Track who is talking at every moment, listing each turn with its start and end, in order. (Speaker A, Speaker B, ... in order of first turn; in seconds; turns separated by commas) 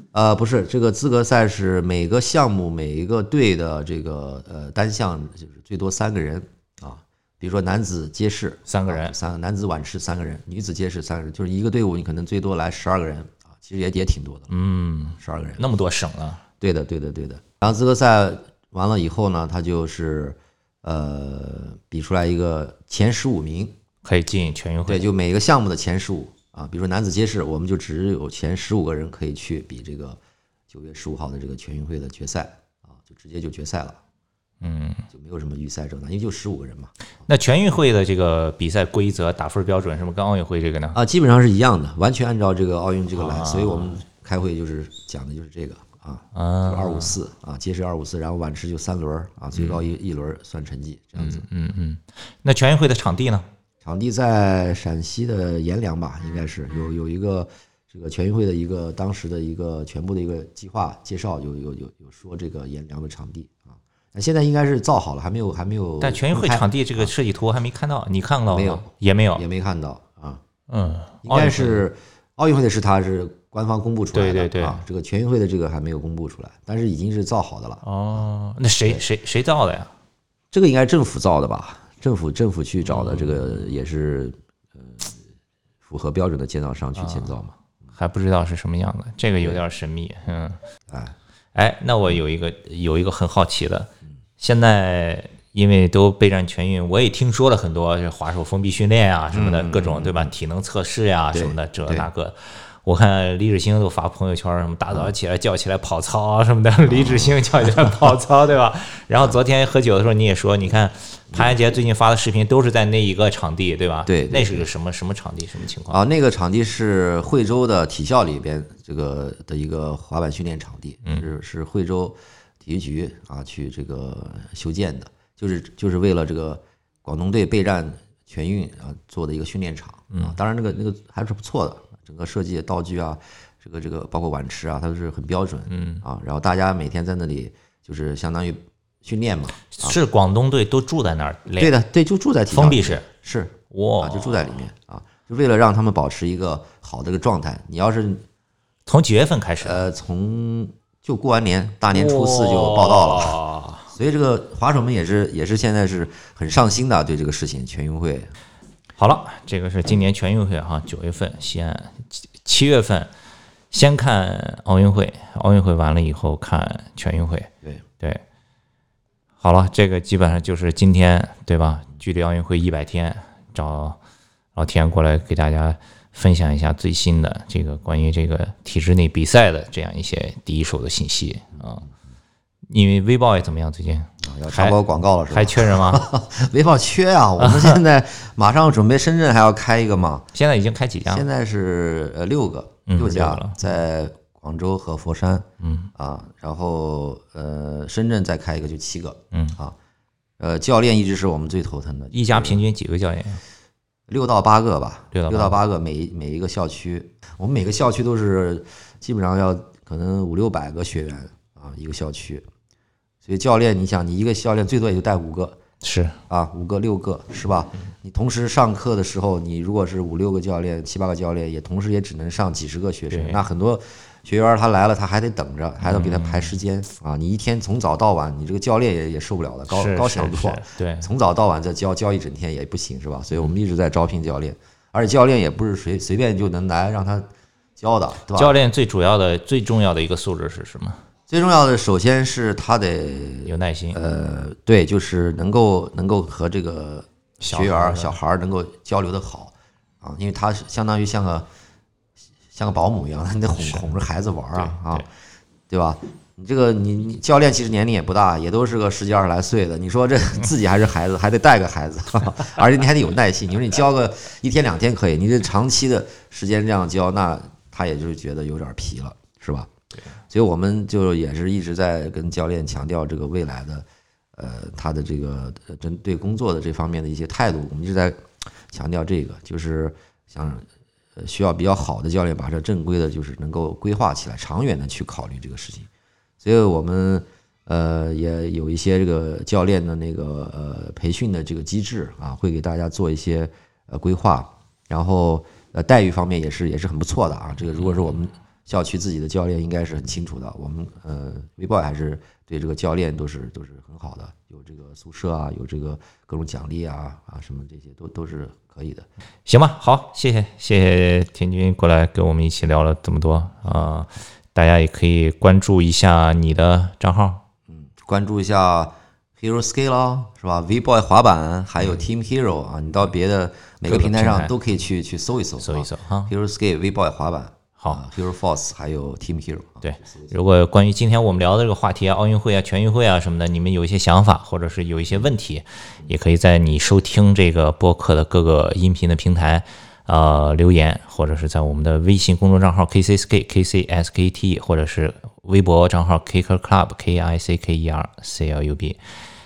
Speaker A: 0.1-14.5, Speaker B: 8.7-9.2, Speaker B: 14.5-16.4, Speaker A: 15.2-15.6, Speaker A: 16.6-23.8, Speaker B: 24.0-25.1, Speaker A: 24.9-30.2, Speaker A: 30.7-34.0, Speaker B: 34.6-35.0, Speaker A: 35.1-36.9, Speaker B: 37.3-41.0, Speaker A: 40.9-51.5, Speaker B: 43.1-44.0, Speaker B: 46.3-47.2, Speaker B: 49.5-49.8, Speaker B: 51.2-53.5, Speaker A: 53.8-67.1, Speaker B: 66.0-69.4, Speaker A: 68.5-70.4, Speaker B: 70.7-71.8, Speaker A: 71.2-78.2, Speaker B: 74.1-74.8, Speaker B: 77.8-79.9, Speaker A: 80.5-85.2, Speaker B: 82.8-83.6, Speaker A: 85.8-87.6, Speaker B: 87.0-87.3, Speaker B: 88.0-90.6, Speaker A: 90.9-91.2, Speaker B: 91.5-116.0, Speaker A: 99.3-100.3, Speaker A: 101.3-102.1, Speaker A: 106.9-107.4, Speaker A: 114.1-114.7, Speaker A: 115.9-140.0, Speaker B: 135.7-136.0, Speaker B: 139.8-141.7, Speaker A: 141.6-148.2, Speaker B: 142.5-143.0, Speaker B: 143.7-144.6, Speaker B: 148.9-149.8, Speaker A: 149.6-153.4, Speaker B: 151.9-153.9, Speaker A: 153.9-158.3, Speaker B: 159.0-163.1, Speaker B: 163.7-168.2, Speaker B: 169.4-174.0, Speaker B: 174.6-181.8, Speaker B: 182.7-184.8, Speaker A: 184.2-190.3, Speaker B: 185.3-186.0, Speaker B: 187.4-187.8, Speaker B: 190.3-191.3, Speaker A: 191.1-199.8, Speaker B: 192.9-193.6, Speaker B: 195.6-195.9, Speaker B: 199.3-199.6, Speaker A: 200.4-202.6, Speaker B: 202.1-203.4, Speaker A: 204.1-212.5, Speaker B: 205.1-205.6, Speaker A: 213.2-215.6, Speaker B: 215.8-216.2, Speaker A: 216.3-237.3, Speaker B: 223.1-223.4, Speaker B: 225.8-226.5, Speaker B: 229.7-231.1, Speaker A: 237.8-238.6, Speaker B: 238.3-241.0, Speaker A: 241.3-251.5, Speaker B: 243.5-244.0, Speaker B: 247.4-248.2, Speaker A: 252.5-255.1, Speaker B: 253.6-253.9, Speaker B: 254.6-255.1, Speaker A: 255.7-269.7, Speaker A: 270.3-273.9, Speaker A: 274.4-285.9, Speaker A: 286.4-309.1, Speaker B: 309.5-317.4, Speaker A: 313.7-313.9, Speaker A: 317.7-330.4, Speaker B: 323.9-324.5, Speaker B: 325.6-326.3, Speaker B: 329.8-349.0